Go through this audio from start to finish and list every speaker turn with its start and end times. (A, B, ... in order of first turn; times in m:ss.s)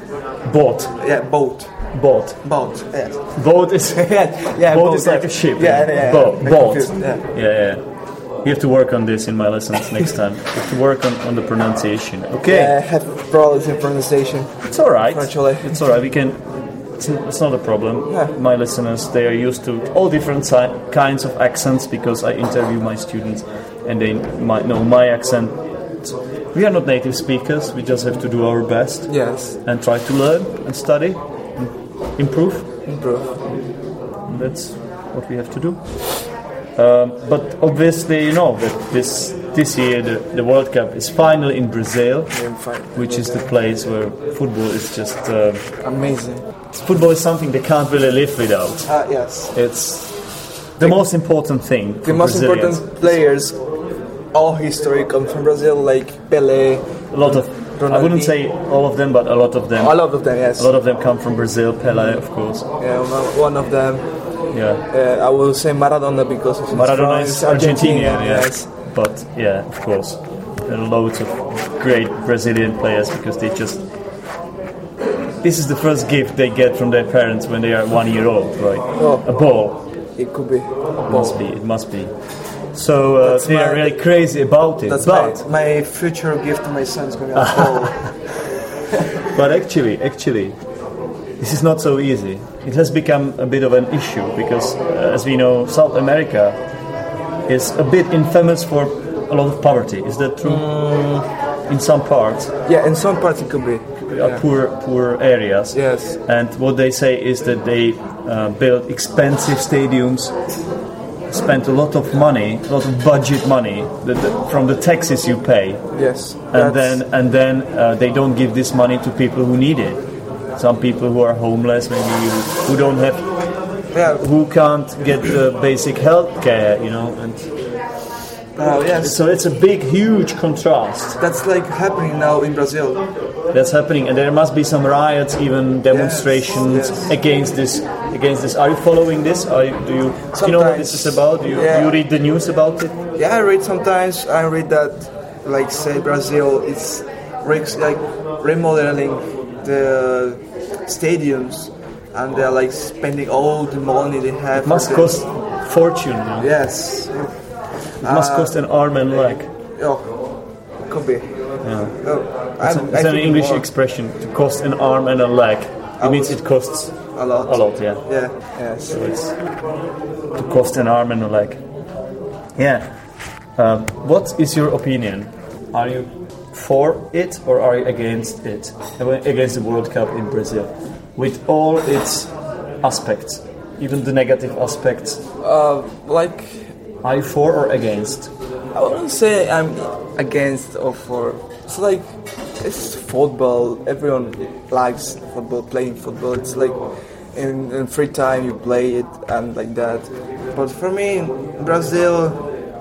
0:00.4-0:01.0 A
0:01.0-0:01.7 B
0:01.9-0:02.4 A
0:02.4-0:07.2 B
0:03.3-0:07.8 A
0:08.4-0:12.7 A
0:12.5-0:15.8 B
0:14.7-0:32.7 A
0:29.1-0:29.6 B
0:32.9-0:33.4 B
0:34.3-0:35.8 A
0:36.8-0:42.4 A
0:42.3-0:43.5 B
0:43.0-0:45.6 A
0:45.8-0:46.4 B
0:46.7-0:48.8 A
0:48.9-0:49.5 B
0:49.5-0:50.2 A
0:50.8-0:53.2 A
0:52.0-0:53.6 B
0:54.3-0:58.4 B
0:57.1-1:02.7 A
0:59.8-1:00.7 B
1:01.9-1:02.2 B
1:02.8-1:04.1 B
1:04.5-1:04.8 A
1:04.9-1:08.7 B
1:06.7-1:13.8 A
1:15.4-1:19.8 A
1:19.0-1:19.3 B
1:20.2-1:21.4 B
1:21.0-1:22.2 A
1:22.7-1:25.4 A
1:23.2-1:23.9 B
1:24.9-1:29.2 B
1:27.4-1:28.1 A
1:29.3-1:30.6 A
1:31.4-1:36.6 A
1:37.5-1:40.7 A
1:40.4-1:41.3 B
1:41.7-1:42.5 A
1:42.7-1:44.4 B
1:44.0-1:50.3 A
1:45.7-1:46.2 B
1:51.3-1:55.8 A
1:55.9-1:57.0 B
1:56.5-2:00.0 A
2:00.6-2:03.3 A
2:03.9-2:04.2 B
2:04.1-2:07.5 A
2:08.6-2:09.2 B
2:09.0-2:11.2 A
2:11.2-2:13.0 B
2:13.5-2:23.0 A
2:15.9-2:17.1 B
2:20.4-2:22.0 B
2:23.2-2:35.2 B
2:34.6-2:36.5 A
2:36.4-2:37.3 B
2:38.0-2:40.2 B
2:38.0-2:39.5 A
2:40.9-2:41.4 B
2:41.6-2:42.0 A
2:42.0-2:43.7 B
2:42.6-2:48.0 A
2:46.0-2:46.4 B
2:47.1-2:49.0 B
2:48.9-2:49.4 A
2:50.4-2:51.6 A
2:52.6-2:52.9 A
2:53.6-3:05.2 A
3:05.4-3:06.7 B
3:07.0-3:08.3 A
3:08.8-3:16.8 B
3:17.3-3:22.5 B